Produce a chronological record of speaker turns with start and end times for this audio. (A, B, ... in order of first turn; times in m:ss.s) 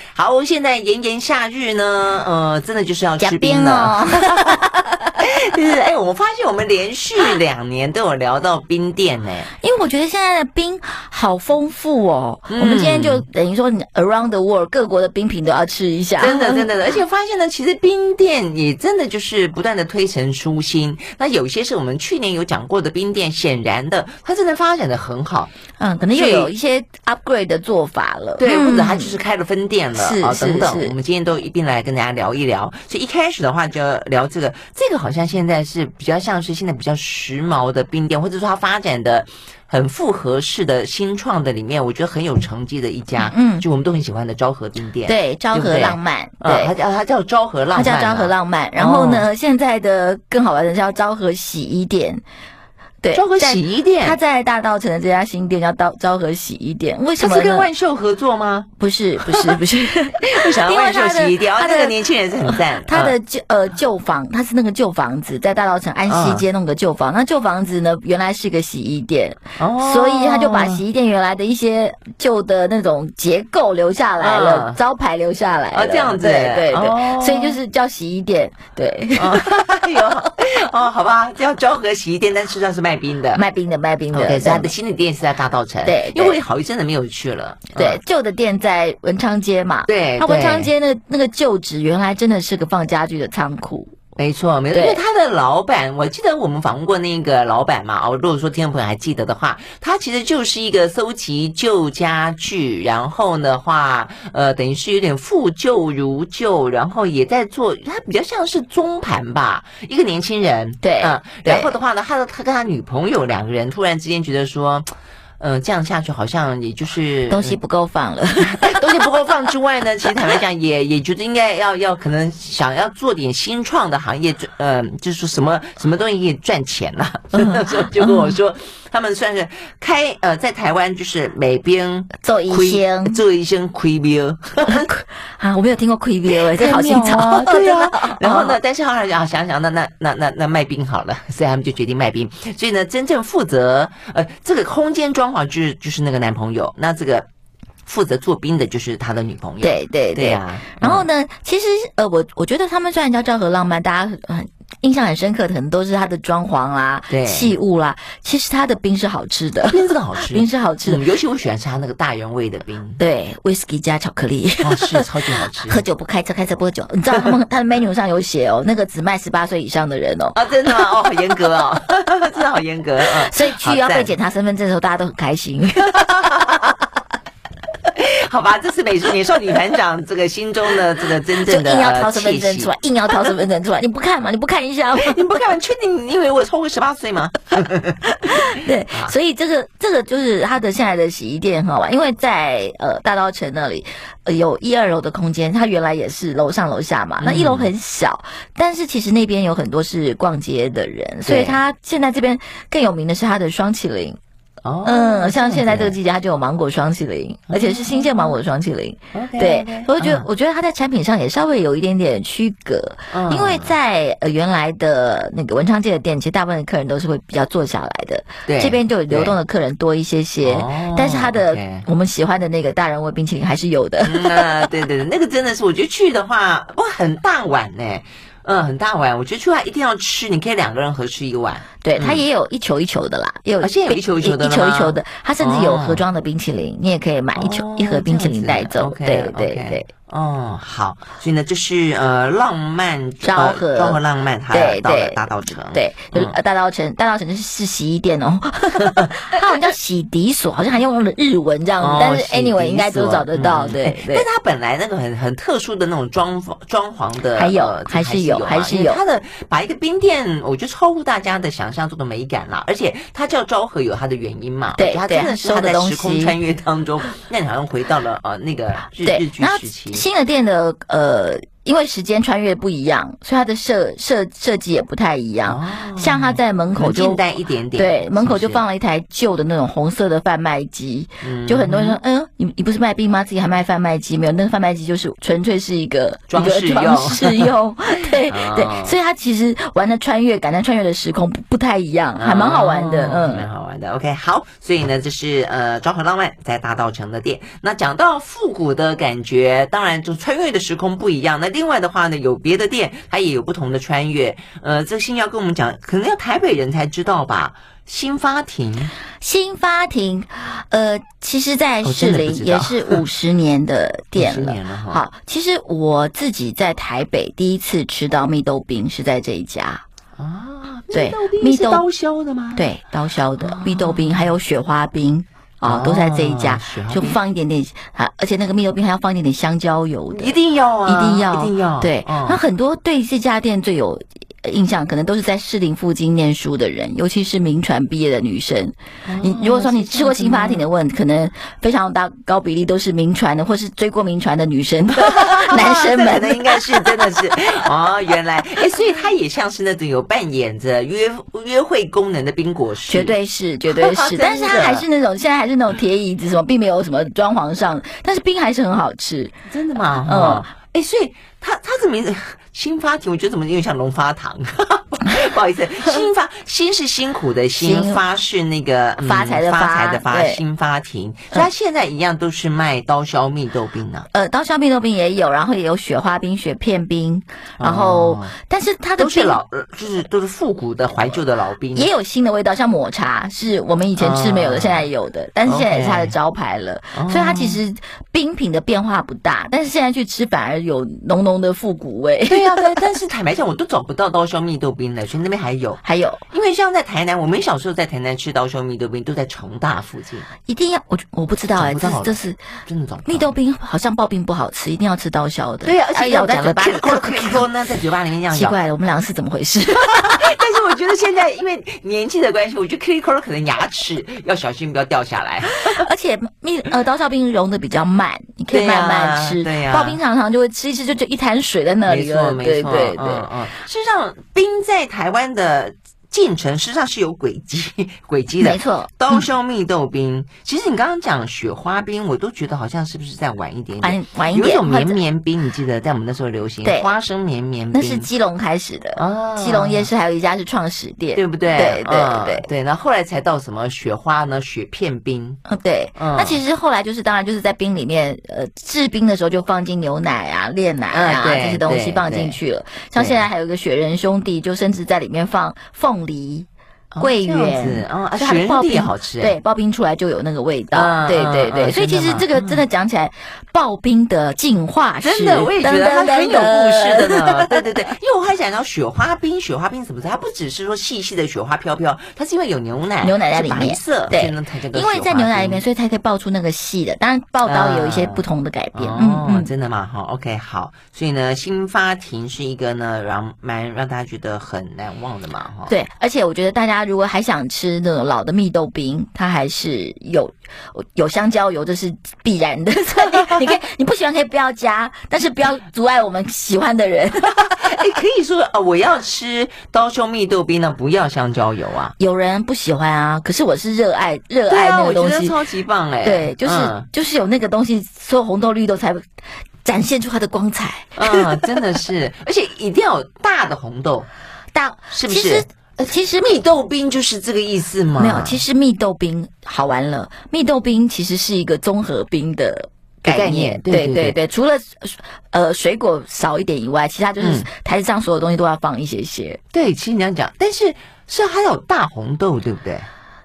0:00.1-0:09.5 A
0:03.2-0:05.1 B
0:09.5-0:16.7 B
0:12.5-0:13.2 A
0:16.2-0:25.5 A
0:25.8-0:29.2 B
0:26.1-0:26.5 A
0:28.4-0:49.2 A
0:29.9-0:30.9 B
0:43.2-0:43.6 B
0:45.1-0:46.7 B
0:47.7-0:52.2 B
0:53.0-0:57.7 B
0:53.1-0:54.2 A
0:57.2-0:58.7 A
0:58.8-1:02.0 B
0:59.2-0:59.6 A
1:00.2-1:03.1 A
1:02.5-1:20.0 B
1:06.1-1:06.4 A
1:09.6-1:10.8 A
1:14.2-1:14.8 A
1:15.7-1:17.6 A
1:19.2-1:23.4 A
1:23.3-1:24.7 B
1:24.1-1:28.0 A
1:25.8-1:26.4 B
1:27.8-1:33.9 B
1:29.9-1:30.7 A
1:34.2-1:54.9 A
1:34.7-1:35.0 B
1:50.8-1:51.7 B
1:55.4-1:57.6 A
1:57.3-1:59.3 B
1:58.4-2:14.9 A
2:00.1-2:00.3 B
2:07.3-2:08.4 B
2:12.2-2:13.2 B
2:14.6-2:18.6 B
2:16.3-2:27.2 A
2:27.8-2:31.0 A
2:29.6-2:41.0 B
2:37.1-2:37.5 A
2:39.6-2:43.0 A
2:43.0-2:51.1 B
2:44.6-2:45.8 A
2:50.3-2:54.1 A
2:53.0-2:56.1 B
2:55.8-2:56.8 A
2:57.8-3:03.3 A
3:01.4-3:05.4 B
3:04.9-3:09.1 A
3:08.2-3:24.2 B
3:17.2-3:17.7 A
3:21.2-3:21.6 A
3:24.6-3:26.0 A
3:24.8-3:44.7 B
3:27.5-3:28.4 A
3:29.1-3:30.2 A
3:33.1-3:33.7 A
3:38.4-3:39.4 A
3:40.4-3:41.8 A
3:44.0-3:52.2 A
3:51.8-3:59.9 B
3:53.6-3:56.0 A
3:57.3-4:06.3 A
4:03.2-4:04.0 B
4:04.5-4:14.3 B
4:08.8-4:09.7 A
4:11.8-4:30.0 A
4:17.4-4:19.0 B
4:24.8-4:26.4 B
4:29.0-4:37.2 B
4:35.5-4:38.6 A
4:37.7-4:53.5 B
4:41.2-4:42.0 A
4:46.3-4:49.0 A
4:52.2-5:08.9 A
5:09.2-5:19.8 B
5:11.8-5:13.0 A
5:14.2-5:15.0 A
5:20.2-5:22.7 A
5:20.9-5:21.8 B
5:22.6-5:47.0 B
5:23.4-5:24.4 A
5:25.6-5:27.2 A
5:30.1-5:32.4 A
5:39.0-5:40.6 A
5:44.9-5:53.1 A
5:52.9-5:59.3 B
5:53.7-5:54.8 A
5:59.5-6:14.1 A
6:00.0-6:00.5 B
6:07.6-6:08.0 B
6:09.0-6:10.4 B
6:14.1-6:19.4 B
6:17.6-6:18.3 A
6:19.0-6:21.9 A
6:21.7-6:32.9 B
6:24.0-6:24.9 A
6:25.4-6:26.1 A
6:26.9-6:27.6 A
6:32.3-6:40.3 A
6:35.8-6:36.2 B
6:40.4-6:42.4 B
6:41.6-6:43.3 A
6:43.0-6:47.5 B
6:45.6-6:48.6 A
6:48.3-6:50.4 B
6:49.8-6:55.8 A
6:55.5-7:03.3 B
6:58.5-7:00.0 A
7:01.9-7:18.1 A
7:08.4-7:09.2 B
7:13.8-7:15.0 B
7:16.6-7:16.9 B
7:17.7-7:22.4 B
7:19.0-7:19.9 A
7:21.1-7:25.4 A
7:25.4-7:36.5 B
7:26.0-7:26.4 A
7:30.9-7:32.4 A
7:33.0-7:33.2 A
7:36.9-7:39.3 A
7:37.0-7:47.6 B
7:40.7-7:42.6 A
7:45.0-7:55.6 A
7:53.0-7:59.5 B
7:57.4-7:58.2 A
7:58.7-8:05.7 A
8:05.7-8:17.7 B
8:13.0-8:13.4 A
8:17.2-8:21.9 A
8:22.0-8:25.4 B
8:24.5-8:26.8 A
8:26.0-8:29.1 B
8:29.6-8:31.6 B
8:31.0-8:34.1 A
8:34.5-8:36.4 B
8:34.9-8:35.4 A
8:36.2-8:38.4 A
8:38.0-8:49.4 B
8:43.0-8:44.2 A
8:47.2-8:47.5 A
8:49.5-8:52.9 A